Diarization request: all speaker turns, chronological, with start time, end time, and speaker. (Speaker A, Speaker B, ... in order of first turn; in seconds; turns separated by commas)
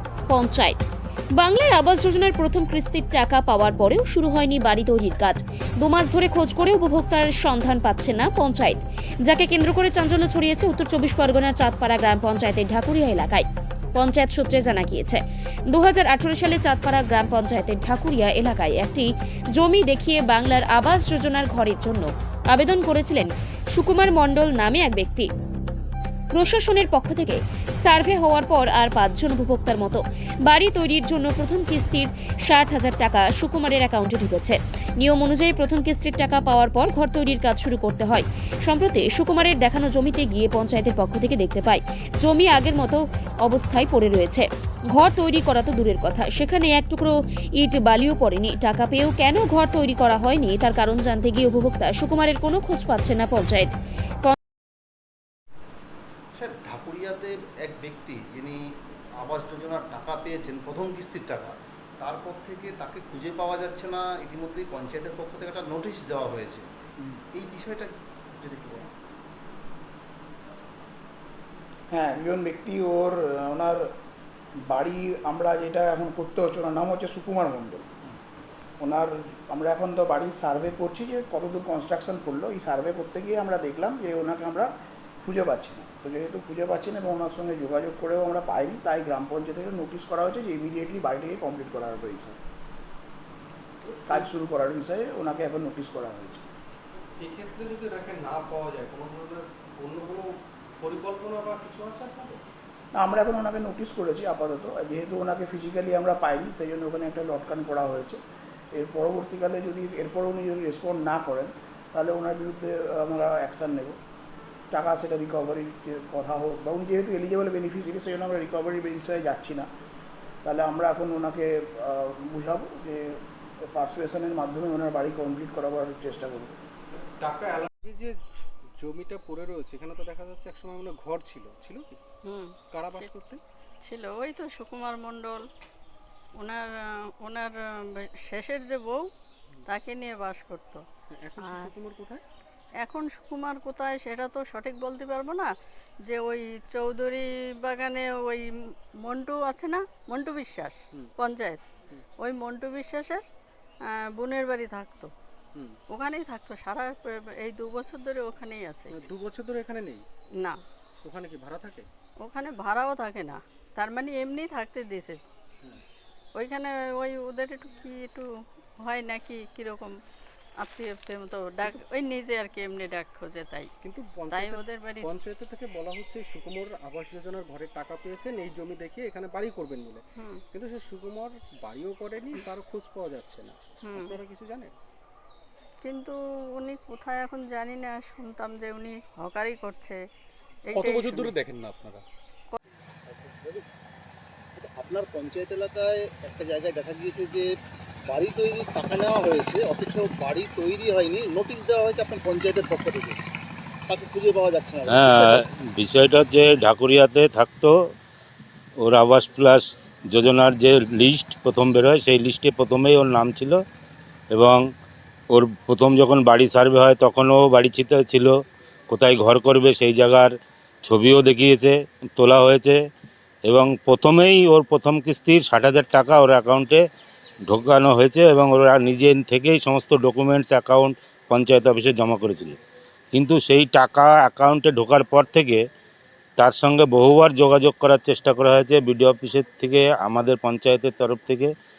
Speaker A: 0.3-0.8, Speaker A: 1.4-13.4, Speaker A: 13.9-25.3, Speaker A: 26.3-53.7, Speaker B: 56.4-58.6, Speaker B: 59.2-66.7, Speaker B: 67.3-68.9, Speaker C: 71.9-73.9, Speaker C: 74.6-77.9, Speaker C: 78.8-84.7, Speaker C: 85.2-92.4, Speaker D: 93.8-94.3, Speaker C: 94.1-96.5, Speaker D: 97.2-102.4, Speaker C: 102.9-108.2, Speaker C: 108.7-113.9, Speaker C: 114.7-119.7, Speaker C: 120.4-126.5, Speaker D: 127.2-128.2, Speaker D: 128.8-132.0, Speaker E: 132.2-133.1, Speaker D: 132.7-133.4, Speaker E: 133.8-135.4, Speaker E: 136.4-136.7, Speaker E: 137.2-139.0, Speaker E: 139.7-140.8, Speaker D: 141.1-142.2, Speaker E: 141.4-141.7, Speaker E: 142.8-145.5, Speaker E: 146.1-148.5, Speaker E: 149.0-151.6, Speaker E: 152.2-153.2, Speaker E: 153.9-155.1, Speaker E: 155.9-159.0, Speaker D: 158.9-160.0, Speaker D: 161.0-161.9, Speaker E: 162.2-165.2, Speaker E: 166.3-168.3, Speaker E: 168.8-169.9, Speaker E: 170.6-173.7, Speaker D: 173.8-184.7, Speaker E: 174.3-175.1, Speaker E: 183.9-184.2, Speaker E: 185.8-190.0, Speaker E: 190.7-191.4, Speaker D: 190.7-192.0, Speaker B: 193.1-193.6, Speaker B: 194.6-197.5, Speaker B: 198.1-203.2, Speaker B: 203.9-205.4, Speaker F: 204.9-207.7, Speaker F: 208.8-213.6, Speaker F: 214.3-214.6, Speaker F: 215.3-218.3, Speaker F: 218.9-222.8, Speaker F: 223.4-226.8, Speaker F: 227.5-232.6, Speaker F: 233.1-235.6, Speaker F: 236.4-241.5